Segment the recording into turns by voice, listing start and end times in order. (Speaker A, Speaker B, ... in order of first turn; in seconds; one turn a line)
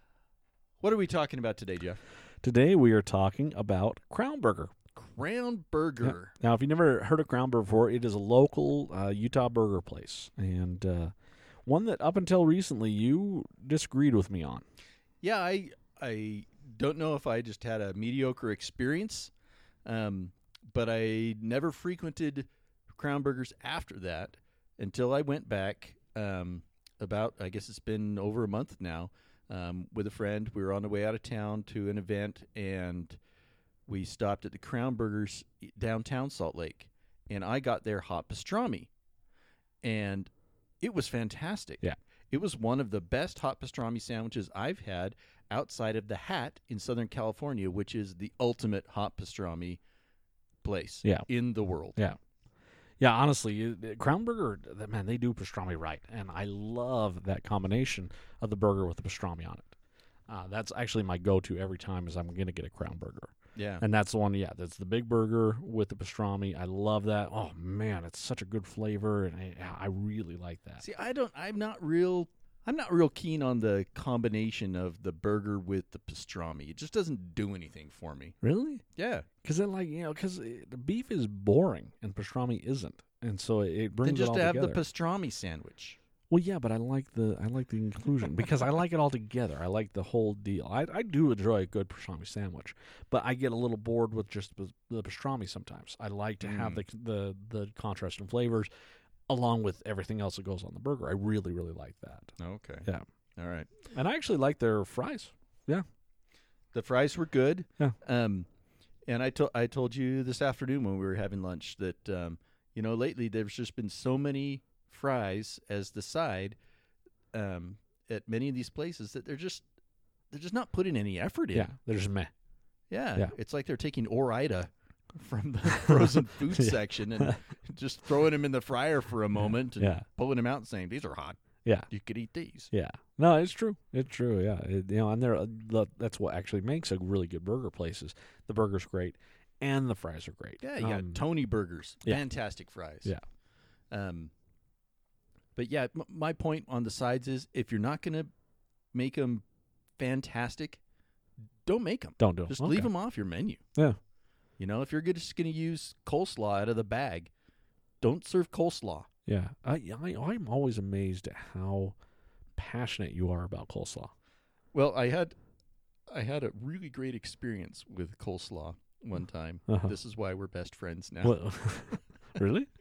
Speaker A: 0.8-2.0
Speaker B: 2.4-4.7
Speaker A: 4.9-6.3
Speaker B: 6.0-11.1
Speaker B: 11.7-14.6
Speaker A: 15.2-19.3
Speaker A: 19.8-33.2
Speaker A: 33.9-38.9
Speaker A: 39.8-49.8
Speaker A: 50.6-52.0
Speaker B: 53.0-59.7
Speaker B: 60.3-70.8
Speaker A: 63.5-63.8
Speaker A: 70.8-78.4
Speaker B: 78.4-78.8
Speaker A: 78.9-79.3
Speaker B: 79.4-84.8
Speaker A: 84.0-86.0
Speaker B: 86.3-98.7
Speaker A: 96.4-96.8
Speaker B: 99.3-103.0
Speaker A: 102.4-103.9
Speaker B: 103.9-105.8
Speaker A: 106.7-108.5
Speaker A: 109.1-116.5
Speaker A: 117.3-119.6
Speaker A: 120.3-121.7
Speaker B: 121.5-122.3
Speaker A: 122.9-132.7
Speaker B: 126.5-127.3
Speaker B: 129.8-130.0
Speaker B: 132.7-141.2
Speaker A: 140.6-143.1
Speaker A: 143.9-144.3
Speaker A: 145.6-148.3
Speaker A: 148.9-149.4
Speaker A: 150.0-150.8
Speaker A: 151.7-153.6
Speaker B: 152.2-152.9
Speaker A: 154.6-157.3
Speaker A: 158.0-159.1
Speaker B: 159.2-161.9
Speaker B: 162.6-164.1
Speaker A: 164.7-165.3
Speaker A: 166.1-171.4
Speaker B: 169.7-169.9
Speaker B: 171.2-172.7